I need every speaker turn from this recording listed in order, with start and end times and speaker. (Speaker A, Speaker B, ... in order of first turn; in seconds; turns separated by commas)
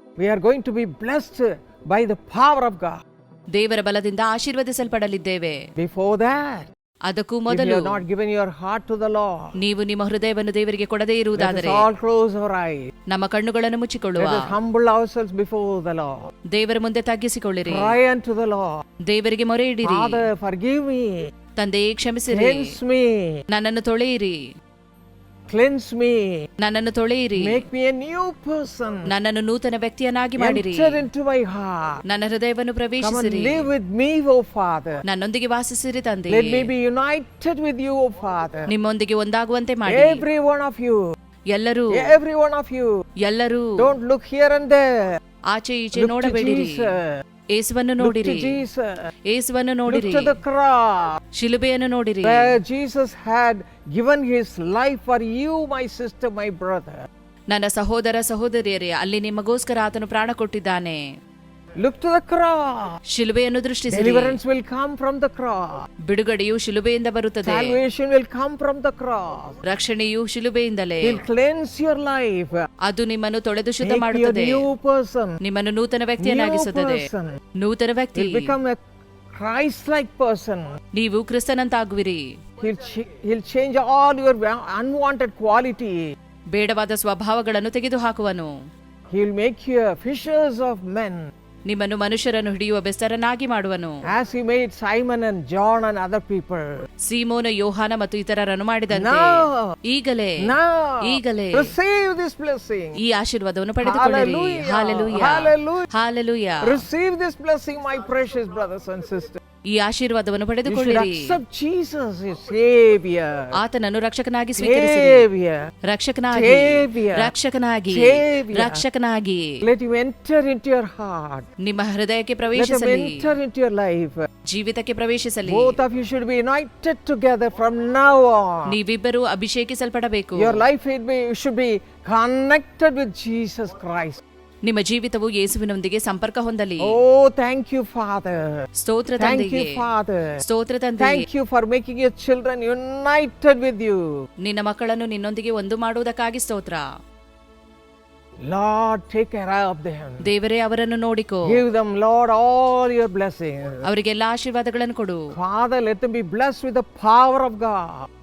Speaker A: 0.2-3.0, Speaker B: 3.5-5.6, Speaker A: 5.8-6.7, Speaker B: 7.1-8.0, Speaker A: 7.5-9.5, Speaker B: 9.6-11.8, Speaker A: 11.3-12.9, Speaker B: 13.1-14.5, Speaker A: 14.2-16.2, Speaker B: 16.5-17.9, Speaker A: 17.6-18.8, Speaker B: 19.1-20.2, Speaker A: 19.8-21.2, Speaker B: 21.6-22.6, Speaker A: 22.3-23.4, Speaker B: 23.5-24.4, Speaker A: 25.5-26.4, Speaker B: 26.6-27.6, Speaker A: 27.4-29.1, Speaker B: 29.1-31.1, Speaker A: 30.4-32.0, Speaker B: 32.1-33.7, Speaker A: 33.0-35.0, Speaker B: 35.1-36.7, Speaker A: 36.3-38.7, Speaker B: 38.7-40.2, Speaker A: 39.9-41.0, Speaker B: 41.5-42.1, Speaker A: 41.9-43.0, Speaker B: 43.2-43.9, Speaker A: 43.8-45.1, Speaker B: 45.5-46.9, Speaker A: 45.9-47.2, Speaker B: 47.5-48.6, Speaker A: 48.0-49.0, Speaker B: 49.3-50.4, Speaker A: 49.9-51.2, Speaker B: 51.3-52.5, Speaker A: 52.2-57.0, Speaker B: 57.5-61.0, Speaker A: 61.8-63.0, Speaker B: 63.1-64.4, Speaker A: 63.9-65.7, Speaker B: 66.1-67.8, Speaker A: 67.4-69.6, Speaker B: 69.7-71.2, Speaker A: 71.0-72.6, Speaker B: 72.8-74.7, Speaker A: 73.8-75.4, Speaker B: 75.4-77.1, Speaker A: 76.2-77.4, Speaker B: 77.6-78.5, Speaker A: 78.1-78.8, Speaker A: 79.3-80.7, Speaker B: 80.9-82.2, Speaker A: 82.6-86.0, Speaker B: 86.5-88.5, Speaker A: 89.1-91.2, Speaker B: 91.7-94.0, Speaker A: 94.1-96.7, Speaker B: 97.1-100.5, Speaker A: 98.9-99.7, Speaker A: 100.4-103.0, Speaker B: 101.1-101.7, Speaker B: 103.0-106.8, Speaker A: 103.8-105.9, Speaker A: 106.6-109.4, Speaker B: 109.7-111.0, Speaker A: 110.6-113.5, Speaker B: 113.6-115.2, Speaker A: 114.5-115.6, Speaker B: 115.9-119.4, Speaker A: 116.3-117.3, Speaker A: 117.9-118.8, Speaker A: 119.6-121.5, Speaker B: 121.6-123.3, Speaker A: 122.5-124.2, Speaker B: 124.5-125.8, Speaker A: 125.4-128.7, Speaker B: 128.8-130.6, Speaker A: 130.3-134.2, Speaker B: 134.6-137.0, Speaker A: 136.8-138.5, Speaker B: 138.8-139.7, Speaker A: 139.2-140.2, Speaker B: 140.5-141.2, Speaker A: 141.0-144.0, Speaker B: 144.4-146.8, Speaker A: 148.4-150.2, Speaker B: 150.3-151.6, Speaker A: 151.4-153.8, Speaker B: 153.9-155.2, Speaker A: 155.3-158.0